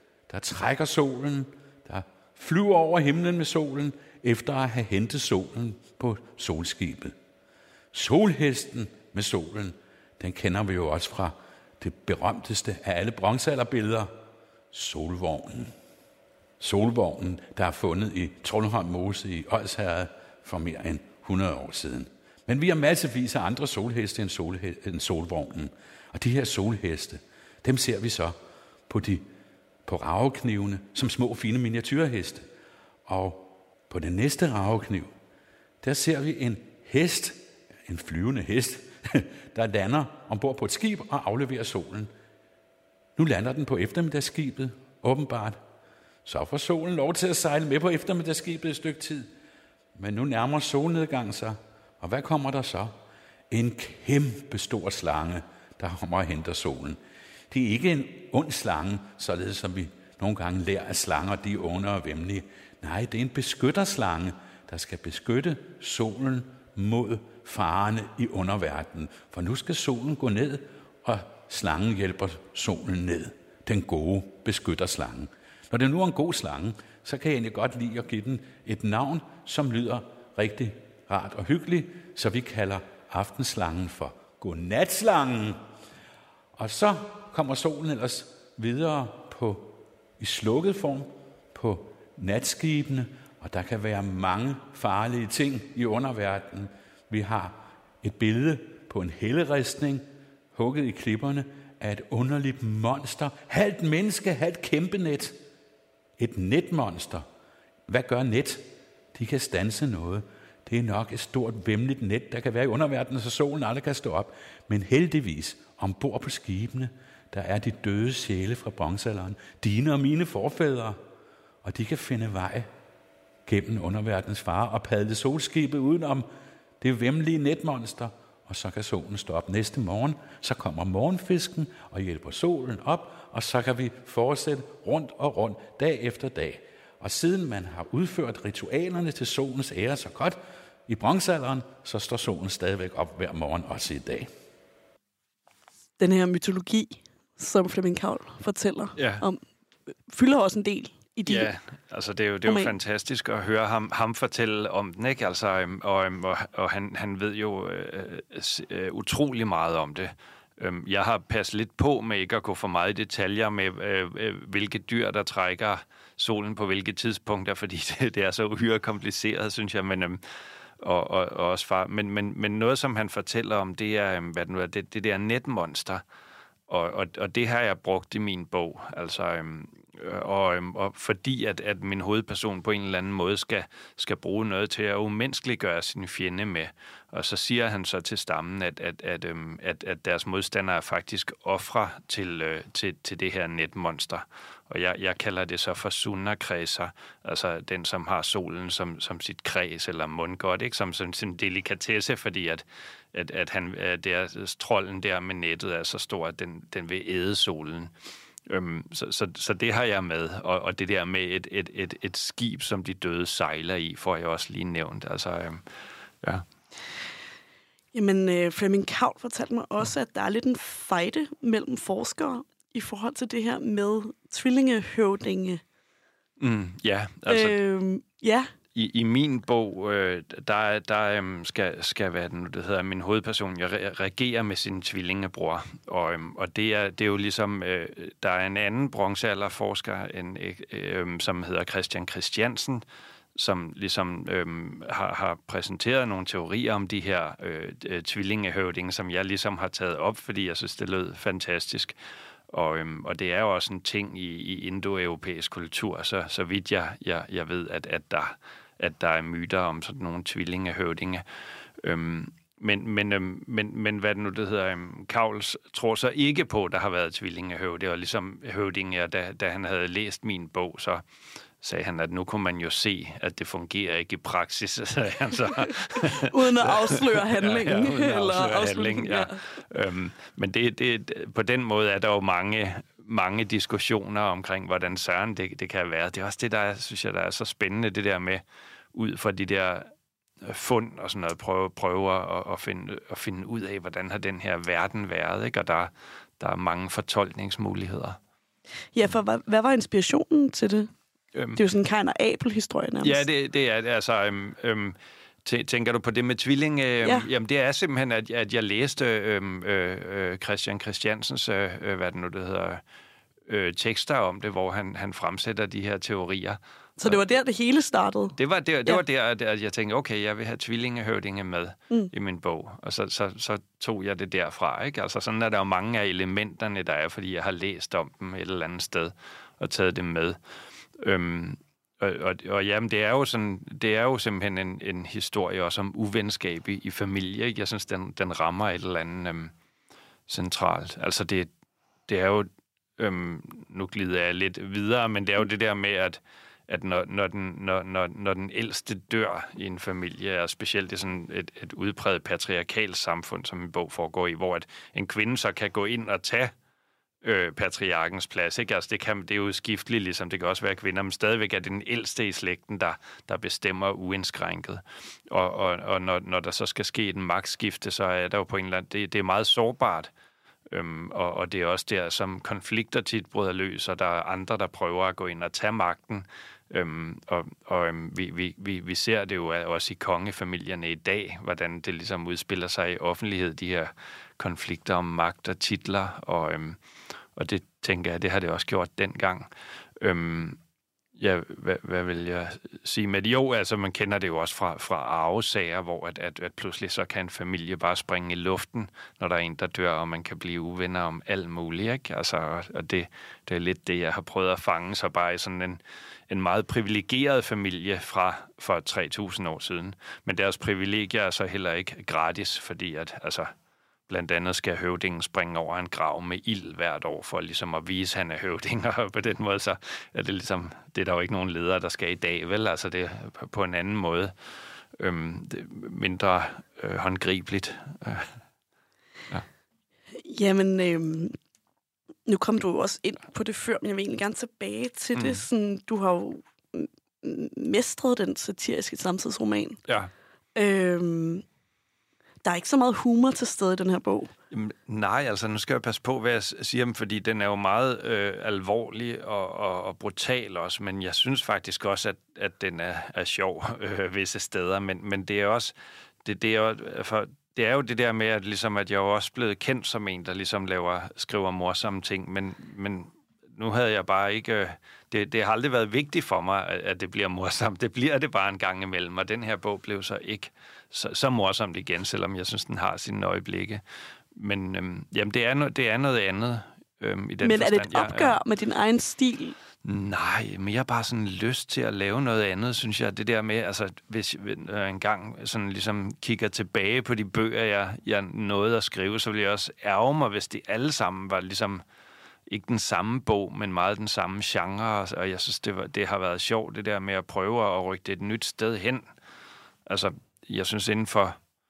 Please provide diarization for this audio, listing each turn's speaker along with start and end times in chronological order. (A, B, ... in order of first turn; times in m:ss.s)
0:00.3-0:07.2 A
0:07.9-0:14.1 A
0:14.7-0:15.7 A
0:16.6-0:28.4 A
0:28.9-0:29.3 A
0:29.9-0:32.5 A
0:33.1-0:35.1 A
0:35.8-0:42.1 A
0:43.2-0:45.6 A
0:46.2-0:49.3 A
0:50.0-0:52.9 A
0:53.5-0:57.0 A
0:57.5-1:25.6 A
1:26.6-1:40.0 A
1:40.6-1:45.4 A
1:46.2-1:47.2 A
1:47.9-2:01.0 A
2:01.6-2:02.7 A
2:03.5-2:06.3 A
2:06.8-2:24.3 A
2:26.0-2:29.4 B
2:29.0-2:29.2 C
2:30.1-2:31.5 B
2:31.3-2:50.2 C
2:32.4-2:32.7 B
2:50.8-2:56.0 C
2:56.7-3:27.9 C
3:28.5-3:35.6 C
3:37.9-3:45.6 B
3:46.4-3:47.6 C
3:47.3-3:48.5 B
3:48.8-4:02.8 C
4:03.4-4:12.0 C
4:12.5-4:21.2 C
4:21.8-4:31.0 C
4:31.6-4:48.4 C
4:36.1-4:39.4 B
4:48.9-4:49.9 C
4:50.4-4:58.2 C
4:59.0-5:00.9 B
5:01.4-5:01.6 C
5:01.6-5:03.2 B
5:03.0-5:12.8 C
5:07.0-5:07.3 B
5:13.5-5:17.2 C
5:17.0-5:19.0 B
5:18.4-5:30.4 C
5:31.0-5:39.5 C
5:40.3-5:41.5 C
5:42.1-5:56.5 C
5:57.2-6:10.1 C
6:10.7-6:26.8 C
6:27.4-6:29.5 C
6:30.0-6:30.6 C
6:31.2-6:53.5 C
6:54.1-7:04.3 C
7:05.0-7:08.3 C
7:10.1-7:11.4 B
7:12.3-7:19.8 B
7:15.2-7:15.4 C
7:20.6-7:21.4 B
7:22.4-7:24.3 B
7:24.5-7:53.8 C
7:54.4-7:58.4 C
7:57.4-7:59.6 B
7:59.8-8:11.8 C
8:12.5-8:19.0 C
8:19.9-8:21.4 C